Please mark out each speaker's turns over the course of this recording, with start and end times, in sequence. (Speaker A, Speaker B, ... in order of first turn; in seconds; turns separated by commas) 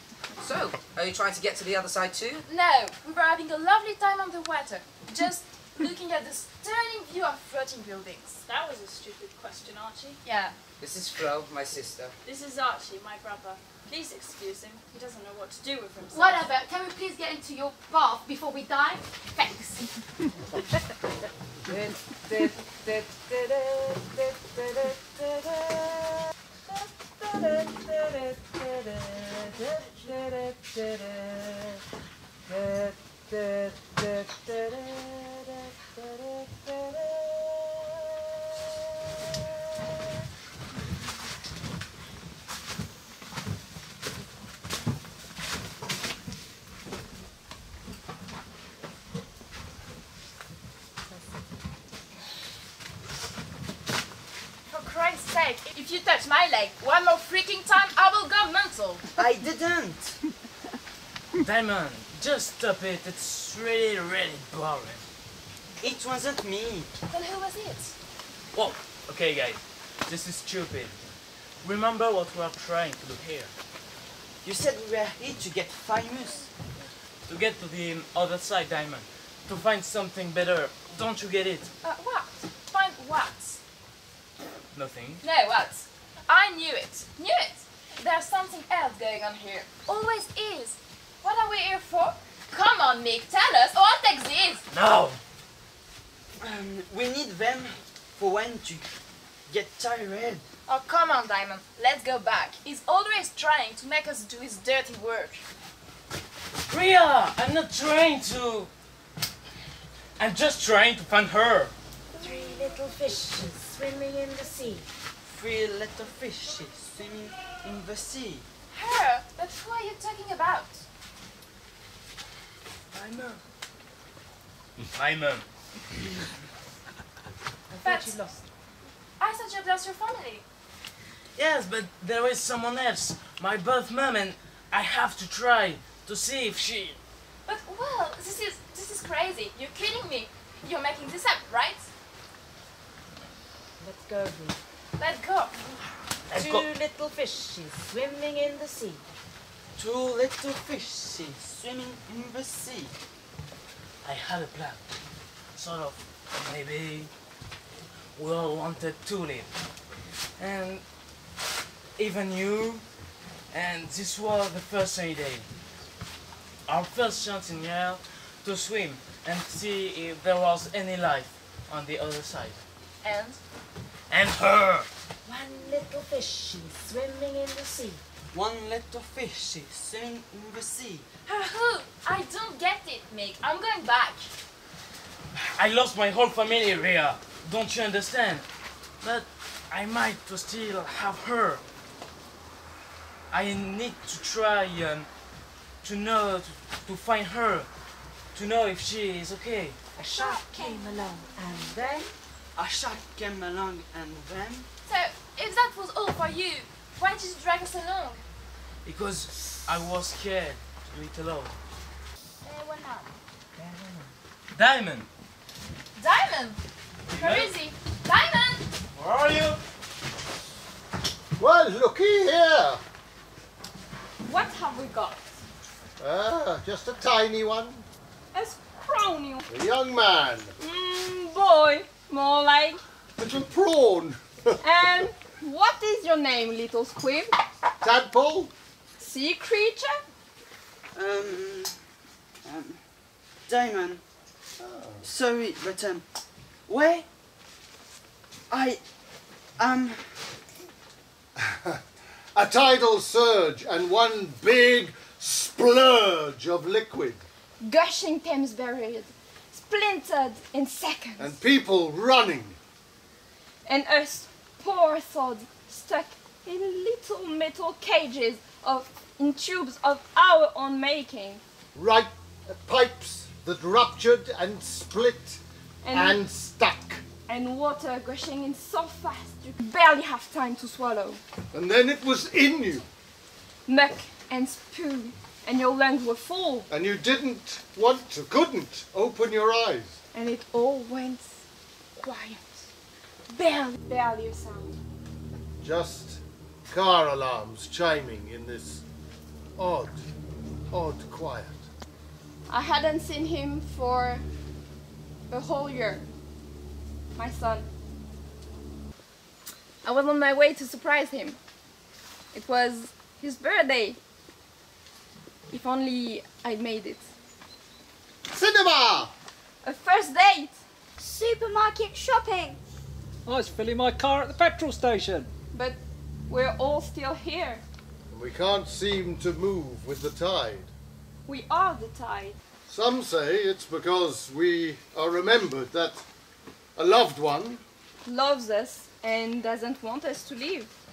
Speaker A: 0.4-2.4, Speaker B: 2.5-8.4, Speaker C: 8.4-10.2, Speaker D: 10.2-10.5, Speaker A: 10.8-12.1, Speaker C: 12.2-16.5, Speaker D: 16.1-19.9, Speaker E: 21.7-31.8, Speaker E: 32.5-37.9, Speaker B: 54.7-59.0, Speaker F: 59.2-60.2, Speaker G: 61.4-65.1, Speaker F: 65.8-66.9, Speaker B: 67.1-67.9, Speaker G: 68.5-71.0, Speaker G: 71.6-73.5, Speaker F: 74.4-76.5, Speaker G: 77.3-81.7, Speaker B: 81.8-83.6, Speaker G: 84.7-85.2, Speaker B: 85.2-94.6, Speaker G: 94.7-95.2, Speaker F: 96.4-98.9, Speaker F: 99.5-100.4, Speaker B: 100.7-105.4, Speaker G: 106.7-108.7, Speaker G: 110.2-111.7, Speaker E: 112.2-114.9, Speaker F: 115.2-118.5, Speaker B: 118.7-120.8, Speaker G: 122.9-123.4, Speaker G: 124.9-125.5, Speaker E: 127.7-128.4, Speaker B: 127.8-128.2, Speaker B: 129.2-130.4, Speaker G: 131.3-137.0, Speaker B: 137.4-141.9, Speaker E: 143.8-144.6, Speaker B: 145.0-145.6, Speaker G: 146.3-146.7, Speaker E: 146.3-149.0, Speaker F: 149.8-152.9, Speaker G: 154.0-154.8, Speaker G: 155.5-157.1, Speaker G: 158.2-159.6, Speaker G: 160.3-160.8, Speaker G: 161.9-162.8, Speaker G: 163.5-165.5, Speaker G: 166.7-172.6, Speaker B: 173.0-173.4, Speaker G: 174.1-174.9, Speaker E: 175.2-178.0, Speaker F: 178.3-181.1, Speaker B: 181.2-184.3, Speaker G: 185.3-188.5, Speaker G: 189.0-191.6, Speaker G: 193.3-195.1, Speaker G: 195.8-197.7, Speaker G: 198.3-199.8, Speaker E: 200.0-202.1, Speaker F: 202.5-204.7, Speaker B: 204.8-208.2, Speaker G: 208.8-211.6, Speaker H: 212.4-213.1, Speaker G: 213.6-215.1, Speaker B: 215.9-216.6, Speaker G: 217.1-217.5, Speaker B: 217.2-218.7, Speaker G: 218.9-219.6, Speaker I: 221.4-222.8, Speaker J: 224.3-225.2, Speaker I: 226.0-227.8, Speaker J: 228.3-229.4, Speaker I: 229.5-230.5, Speaker J: 230.6-232.8, Speaker I: 233.2-234.6, Speaker J: 234.6-237.3, Speaker I: 237.8-238.5, Speaker J: 239.0-240.0, Speaker F: 240.9-241.8, Speaker F: 242.4-242.8, Speaker F: 243.5-244.0, Speaker I: 244.6-245.0, Speaker F: 245.0-246.0, Speaker F: 246.7-247.1, Speaker F: 248.5-248.8, Speaker F: 249.6-250.2, Speaker I: 251.4-251.8, Speaker I: 252.3-257.2, Speaker J: 257.6-261.4, Speaker I: 261.2-262.6, Speaker J: 263.6-271.4, Speaker I: 271.7-275.4, Speaker J: 275.8-276.2, Speaker I: 275.9-277.0, Speaker J: 277.3-281.2, Speaker I: 281.5-282.9, Speaker J: 283.7-286.7, Speaker I: 286.7-290.0, Speaker J: 290.1-291.4, Speaker J: 292.0-292.4, Speaker J: 293.3-294.8, Speaker I: 295.6-298.8, Speaker I: 299.6-300.0, Speaker I: 300.7-301.6, Speaker J: 302.5-304.2, Speaker J: 305.3-306.0, Speaker J: 307.1-307.6, Speaker J: 309.8-311.4, Speaker J: 312.3-314.0, Speaker J: 315.5-317.1, Speaker I: 318.3-319.1, Speaker J: 319.6-320.6, Speaker H: 321.0-322.6, Speaker K: 323.2-325.3, Speaker J: 325.5-325.8, Speaker J: 326.3-327.6, Speaker I: 328.1-330.7, Speaker J: 331.3-332.4, Speaker I: 332.7-336.0, Speaker I: 336.8-337.6, Speaker J: 338.1-340.7